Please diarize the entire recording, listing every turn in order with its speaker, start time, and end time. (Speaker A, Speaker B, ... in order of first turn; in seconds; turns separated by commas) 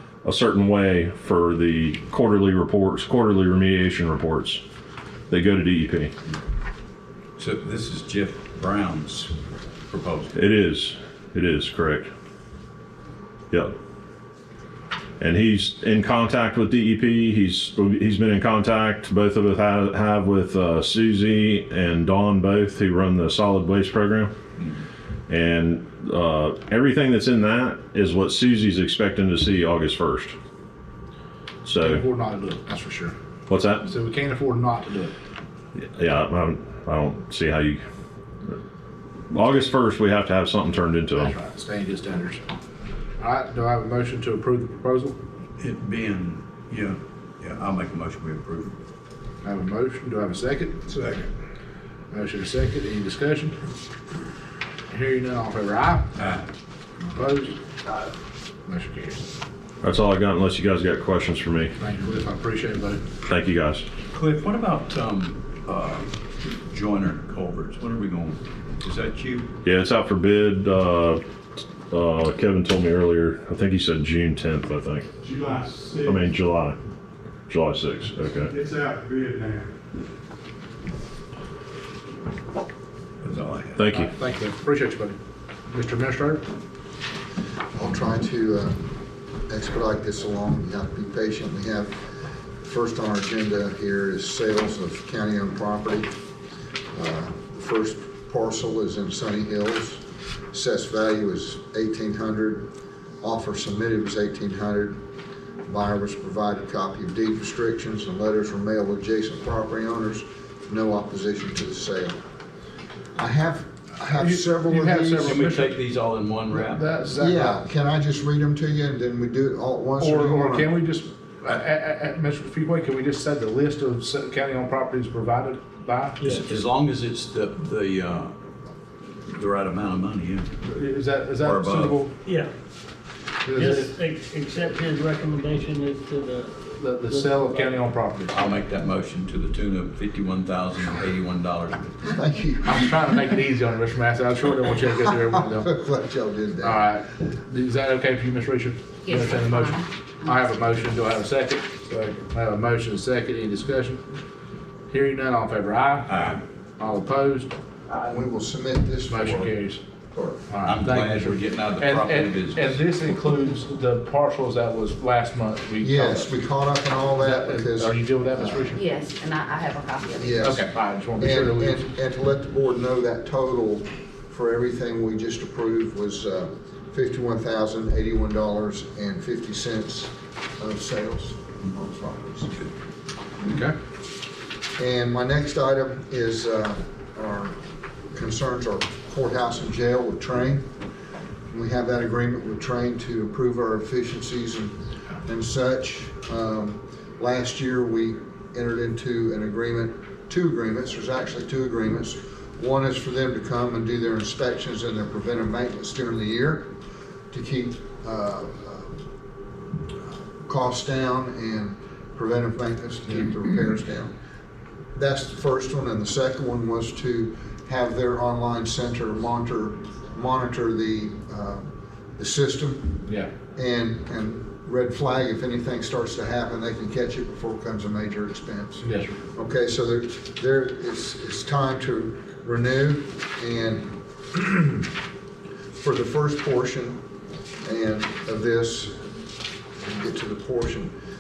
Speaker A: 0.2-4.6, Speaker A: 5.3-6.1, Speaker B: 7.4-9.3, Speaker B: 9.9-10.3, Speaker A: 10.3-12.1, Speaker A: 15.2-24.3, Speaker A: 25.3-30.4, Speaker A: 31.6-32.0, Speaker C: 31.8-33.1, Speaker A: 33.5-33.9, Speaker C: 33.8-35.1, Speaker A: 35.8-37.8, Speaker A: 39.3-41.3, Speaker C: 41.1-42.4, Speaker C: 43.2-45.2, Speaker B: 45.6-48.8, Speaker C: 49.4-51.3, Speaker C: 52.1-53.6, Speaker C: 54.9-56.2, Speaker B: 56.2-56.4, Speaker C: 57.1-57.6, Speaker C: 58.7-59.2, Speaker A: 59.8-61.7, Speaker C: 61.8-63.0, Speaker A: 63.2-63.9, Speaker B: 64.1-69.5, Speaker A: 69.6-71.2, Speaker A: 71.9-75.1, Speaker D: 75.2-76.2, Speaker A: 76.0-76.8, Speaker A: 77.5-78.5, Speaker D: 78.5-79.7, Speaker B: 83.2-83.8, Speaker A: 83.8-84.1, Speaker C: 83.9-86.4, Speaker E: 87.7-88.8, Speaker E: 89.5-92.0, Speaker E: 92.6-96.1, Speaker E: 96.9-102.7, Speaker E: 103.2-105.0, Speaker E: 105.7-112.2, Speaker E: 113.2-115.4, Speaker C: 114.2-115.8, Speaker B: 115.2-117.1, Speaker C: 116.5-117.6, Speaker E: 117.1-120.8, Speaker C: 120.0-126.5, Speaker B: 126.3-128.3, Speaker B: 129.3-130.5, Speaker C: 130.6-132.1, Speaker B: 131.4-132.0, Speaker C: 133.5-133.9, Speaker F: 133.5-137.8, Speaker C: 136.7-138.6, Speaker B: 138.3-142.1, Speaker E: 142.1-142.9, Speaker C: 142.6-145.7, Speaker E: 145.2-146.8, Speaker C: 146.6-154.0, Speaker G: 149.0-150.4, Speaker C: 154.9-157.5, Speaker B: 156.1-156.4, Speaker E: 157.9-160.5, Speaker C: 159.1-159.8, Speaker C: 160.5-166.3, Speaker B: 160.7-162.8, Speaker E: 165.8-168.8, Speaker C: 167.1-168.8, Speaker G: 168.8-170.4, Speaker E: 170.2-182.7, Speaker C: 170.4-171.9, Speaker C: 183.4-183.8, Speaker E: 184.8-187.6, Speaker E: 188.1-190.7, Speaker E: 191.5-206.7, Speaker E: 207.3-208.9, Speaker E: 210.0-214.1, Speaker E: 214.9-234.9, Speaker C: 228.8-229.2, Speaker E: 235.8-237.0, Speaker E: 237.6-239.0, Speaker E: 239.8-240.9